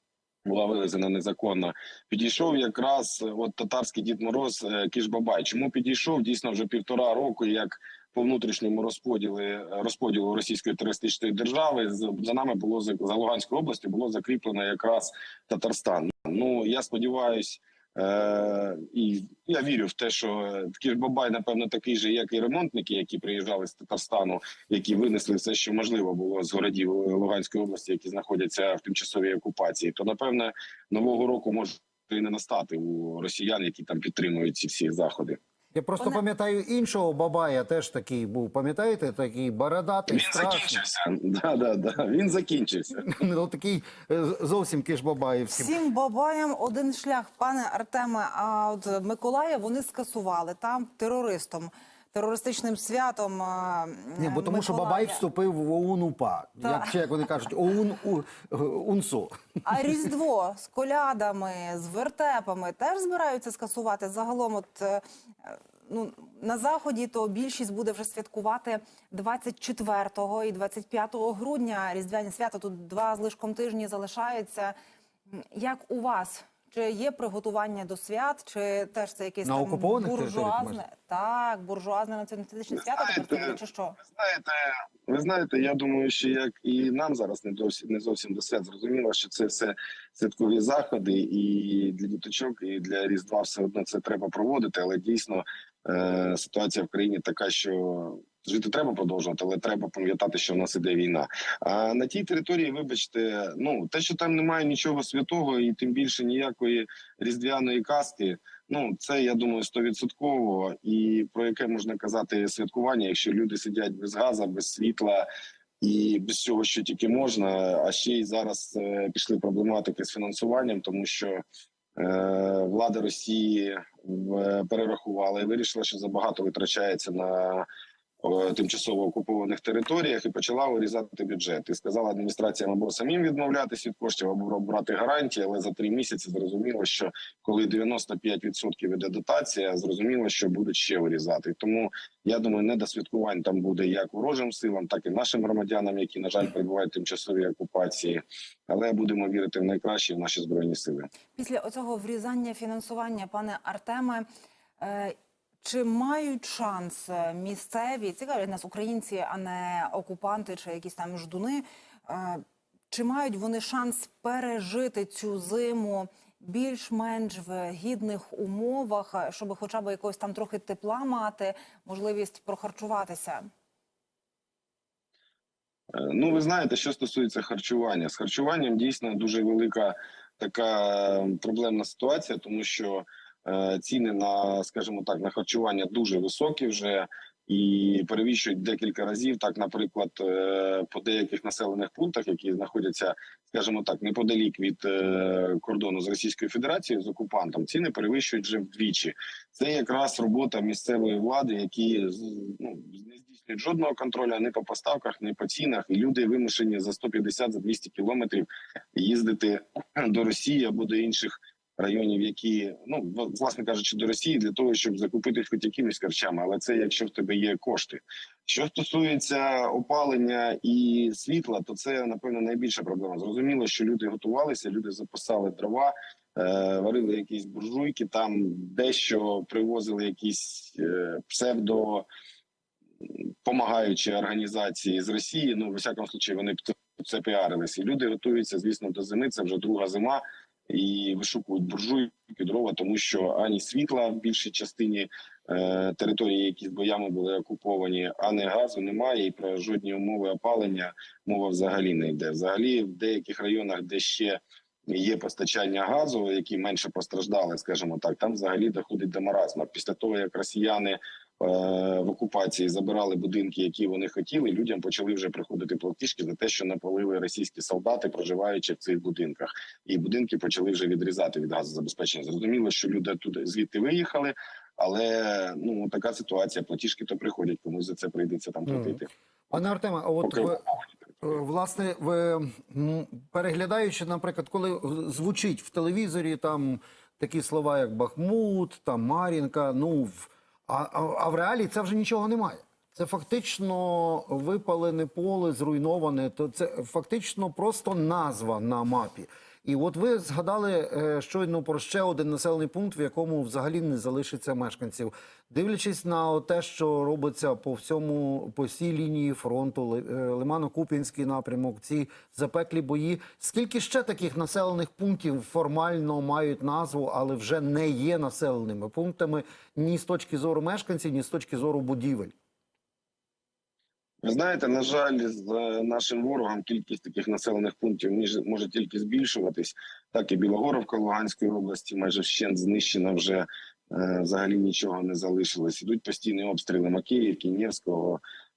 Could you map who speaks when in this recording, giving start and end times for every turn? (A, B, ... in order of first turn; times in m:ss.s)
0:00.4-0:35.4 A
0:35.7-0:40.8 B
0:40.1-0:43.1 A
0:43.0-0:45.8 B
0:45.5-0:55.2 C
0:54.2-0:59.3 B
0:56.6-0:57.0 C
0:59.6-1:14.8 C
1:15.3-1:24.0 C
1:19.4-1:20.8 B
1:22.7-1:55.3 A
1:55.8-2:01.4 A
2:02.0-2:07.7 A
2:08.2-2:31.1 A
2:31.4-2:34.3 C
2:34.8-2:53.4 C
2:55.9-3:52.1 A
3:53.0-4:39.1 A
4:38.7-4:40.6 B
4:40.2-4:41.4 A
4:41.2-5:22.3 B
5:24.2-5:38.2 A